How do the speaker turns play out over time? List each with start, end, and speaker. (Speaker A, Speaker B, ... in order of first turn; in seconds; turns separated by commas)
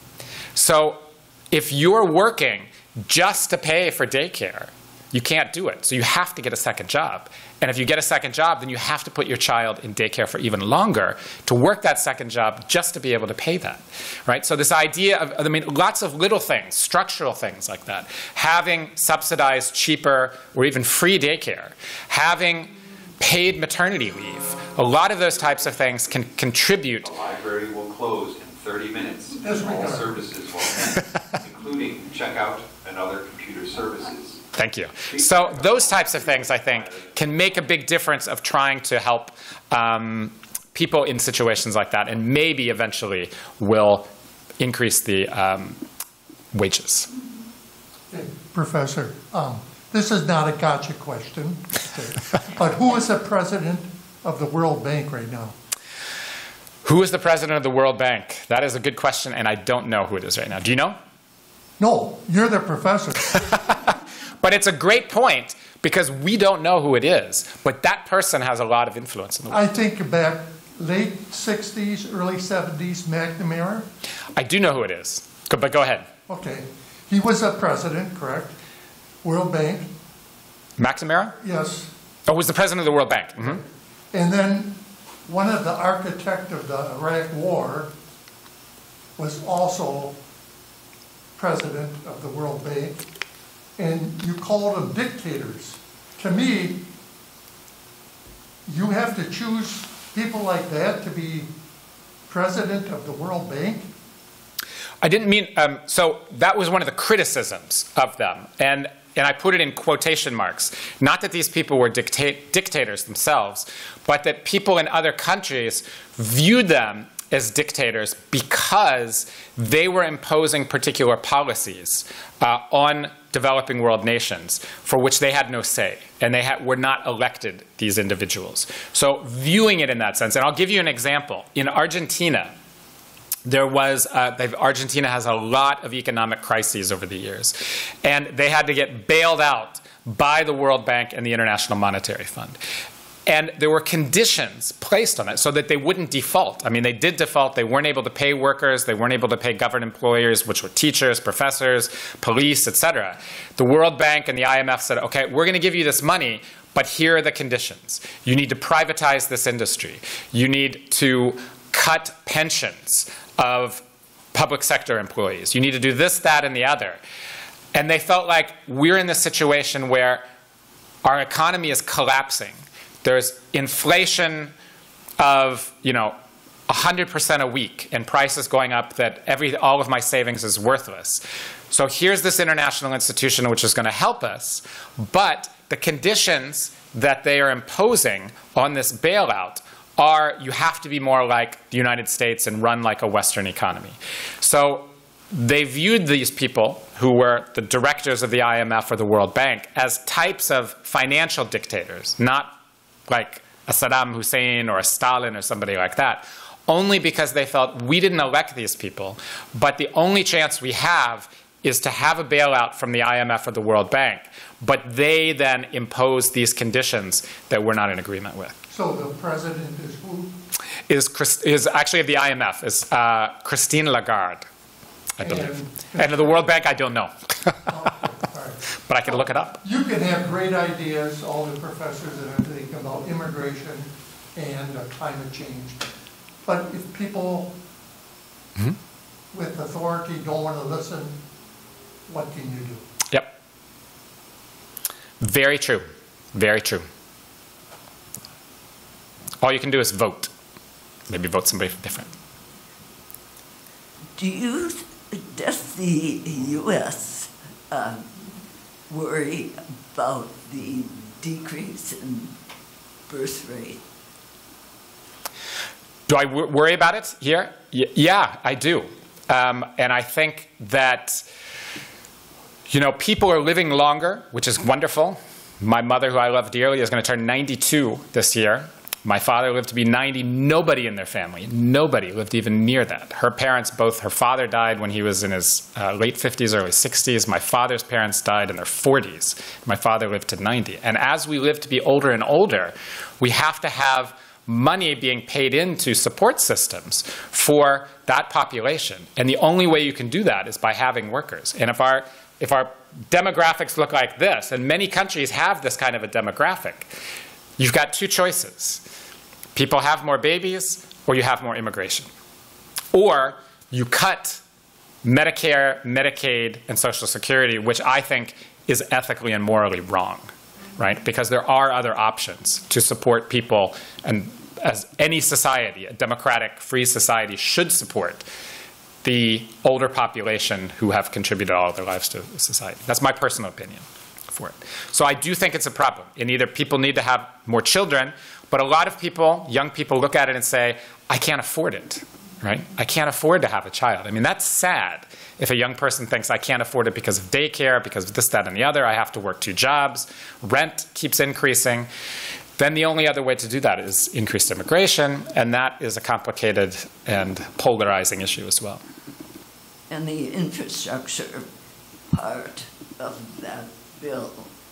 Speaker A: 0.6-27.1, Speaker B: 27.0-34.4, Speaker C: 29.4-30.2, Speaker A: 34.5-45.8, Speaker B: 35.1-37.1, Speaker A: 46.5-47.1, Speaker C: 48.1-55.5, Speaker A: 56.8-61.0, Speaker C: 61.8-63.6, Speaker A: 63.5-63.9, Speaker A: 64.4-69.7, Speaker C: 69.5-73.9, Speaker A: 74.3-76.1, Speaker C: 76.3-78.5, Speaker C: 79.2-79.9, Speaker A: 80.8-81.4, Speaker C: 81.4-81.9, Speaker A: 82.3-83.6, Speaker C: 84.1-87.9, Speaker C: 89.2-90.2, Speaker C: 91.4-93.0, Speaker C: 93.8-96.8, Speaker C: 98.7-101.5, Speaker C: 102.3-103.9, Speaker A: 105.0-132.5, Speaker A: 133.4-142.6, Speaker A: 143.2-163.8, Speaker A: 164.3-167.0, Speaker A: 167.7-170.2, Speaker A: 171.0-174.5, Speaker A: 175.2-176.2, Speaker A: 176.7-202.5, Speaker A: 203.1-218.6, Speaker C: 218.7-220.3, Speaker A: 220.9-224.4, Speaker A: 225.2-227.6, Speaker C: 225.2-226.4, Speaker C: 227.7-235.8, Speaker A: 228.8-229.6, Speaker C: 236.4-237.5, Speaker C: 239.3-241.2, Speaker C: 242.1-242.8, Speaker A: 245.2-246.8, Speaker A: 249.4-250.3, Speaker A: 251.1-252.1, Speaker D: 254.2-258.1, Speaker D: 258.9-262.3, Speaker D: 263.1-263.8, Speaker A: 266.1-271.2, Speaker A: 272.7-306.9, Speaker A: 307.6-308.8, Speaker A: 309.5-312.1, Speaker A: 312.9-314.4, Speaker A: 315.0-328.2, Speaker A: 329.0-351.9, Speaker A: 352.6-358.8, Speaker D: 359.9-361.5, Speaker D: 362.1-364.5